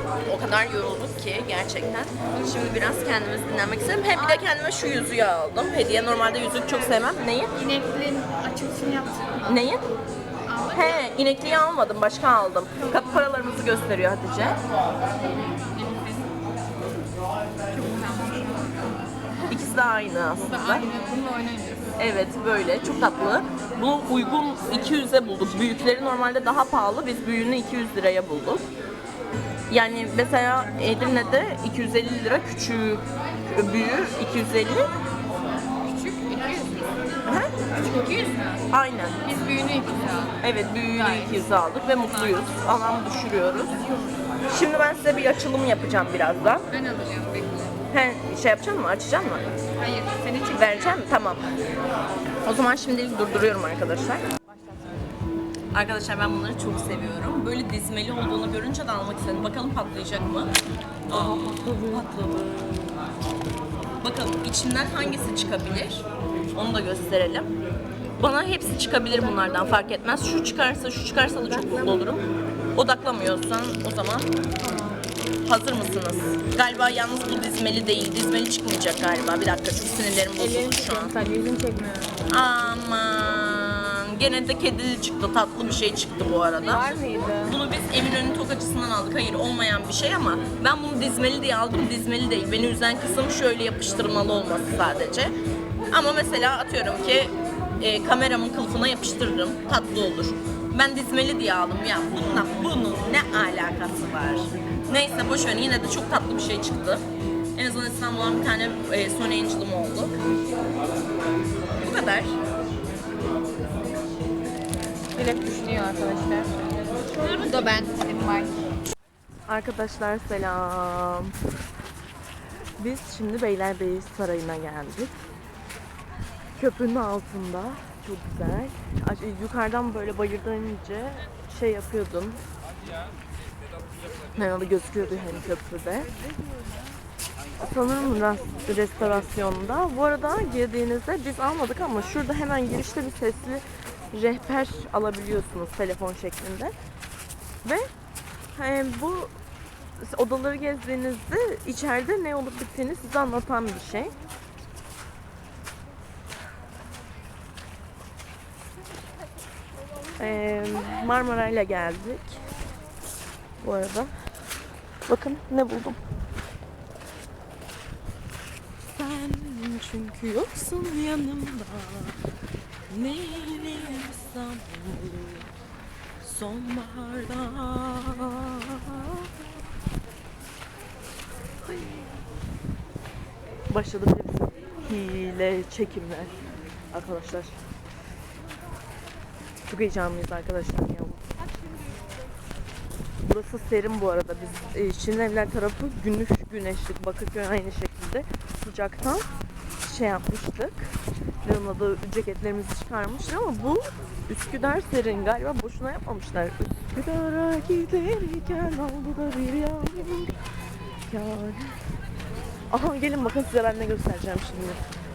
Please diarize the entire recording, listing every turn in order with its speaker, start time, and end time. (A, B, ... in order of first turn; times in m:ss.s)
0:00.3-0:07.5 A
0:04.1-0:04.4 B
0:07.5-0:09.6 B
0:09.4-0:09.8 A
0:10.4-0:11.0 B
0:10.7-0:14.6 A
0:15.4-0:16.3 B
0:17.7-0:18.8 B
0:19.5-0:20.9 A
0:20.4-0:21.8 B
0:22.0-0:28.6 A
0:29.7-0:34.9 A
0:35.8-0:37.0 B
0:37.2-0:37.5 A
0:37.7-0:38.6 B
0:38.7-0:39.2 A
0:39.2-0:40.4 B
0:40.4-0:43.8 A
0:40.9-0:41.4 B
0:42.0-0:42.4 B
0:43.8-0:44.2 B
0:44.5-0:46.6 A
0:46.7-0:47.8 B
0:47.9-0:49.4 A
0:49.8-0:51.0 B
0:50.5-0:51.4 A
0:52.4-0:54.2 A
0:55.7-1:00.5 A
1:01.1-1:03.0 A
1:04.0-1:07.5 A
1:08.2-1:12.2 A
1:11.4-1:12.0 B
1:12.8-1:14.3 A
1:14.6-1:15.0 B
1:15.4-1:21.1 A
1:20.4-1:22.2 B
1:22.3-1:35.3 A
1:26.6-1:27.6 B
1:35.9-1:47.0 A
1:47.6-1:50.2 A
1:51.8-1:52.4 A
1:55.1-1:56.5 B
1:57.2-1:58.6 B
1:59.5-2:01.3 A
2:02.8-2:05.1 A
2:06.6-2:12.4 A
2:14.3-2:16.1 A
2:16.2-2:16.6 B
2:17.6-2:26.7 A
2:27.6-2:27.9 A
2:28.5-2:29.3 A
2:30.0-2:34.1 A
2:40.2-2:42.4 A
2:43.6-2:44.1 A
2:45.1-2:46.0 A
2:48.9-2:52.2 A
2:52.9-2:55.5 A
2:56.2-2:59.2 A
3:01.6-3:02.0 A
3:03.7-3:06.3 A
3:06.9-3:07.6 A
3:09.7-3:11.4 A
3:13.2-3:19.3 A
3:19.8-3:30.4 A
3:31.1-3:31.7 A
3:32.7-3:34.8 A